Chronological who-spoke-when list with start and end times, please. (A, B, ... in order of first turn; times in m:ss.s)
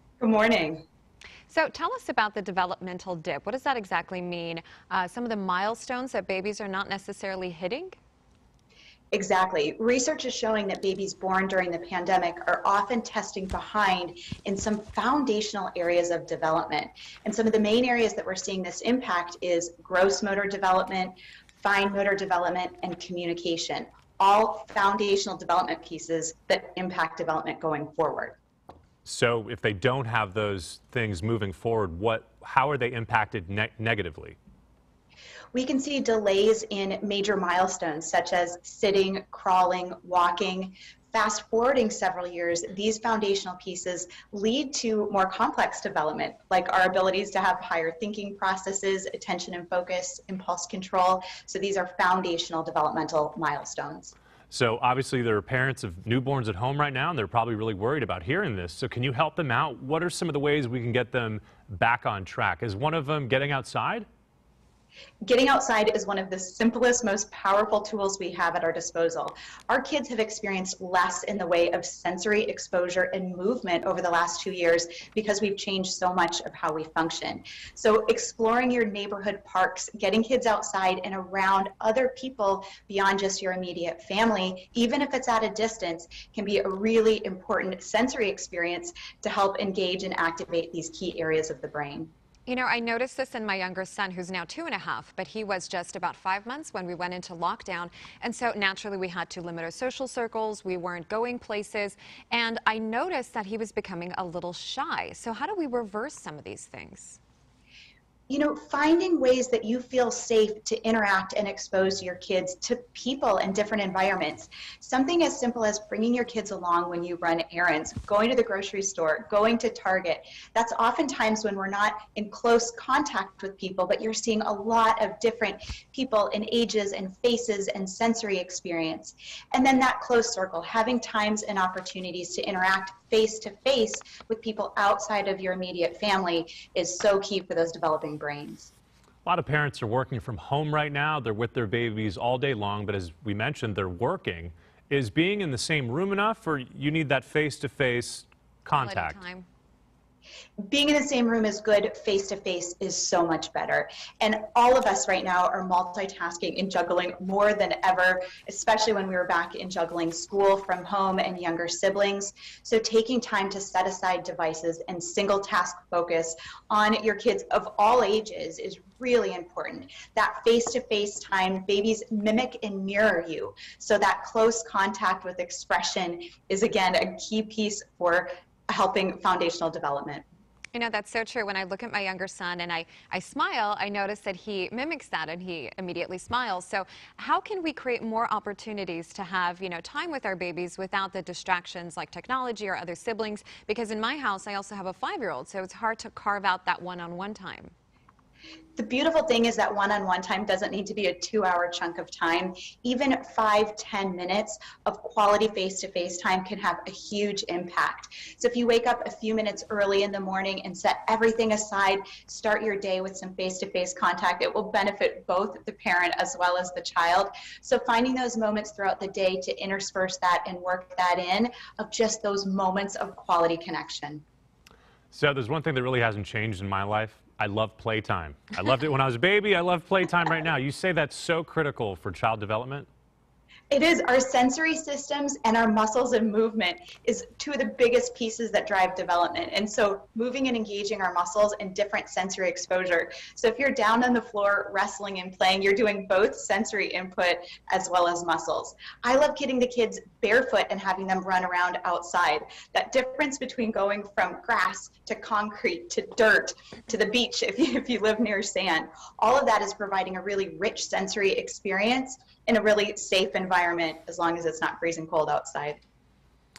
0:00.2-0:00.8 A
0:01.5-0:08.0 B
0:09.1-0:28.4 A
0:29.0-0:34.4 C
0:35.5-0:54.1 A
0:54.5-1:04.1 C
1:05.2-1:32.1 A
1:32.5-1:47.2 B
1:48.3-2:18.7 A
2:19.2-2:29.2 C
2:28.8-2:29.5 B
2:30.7-3:00.3 A
3:00.7-3:17.7 B
3:18.8-3:44.2 A
3:45.1-3:52.9 C
3:53.7-4:25.8 A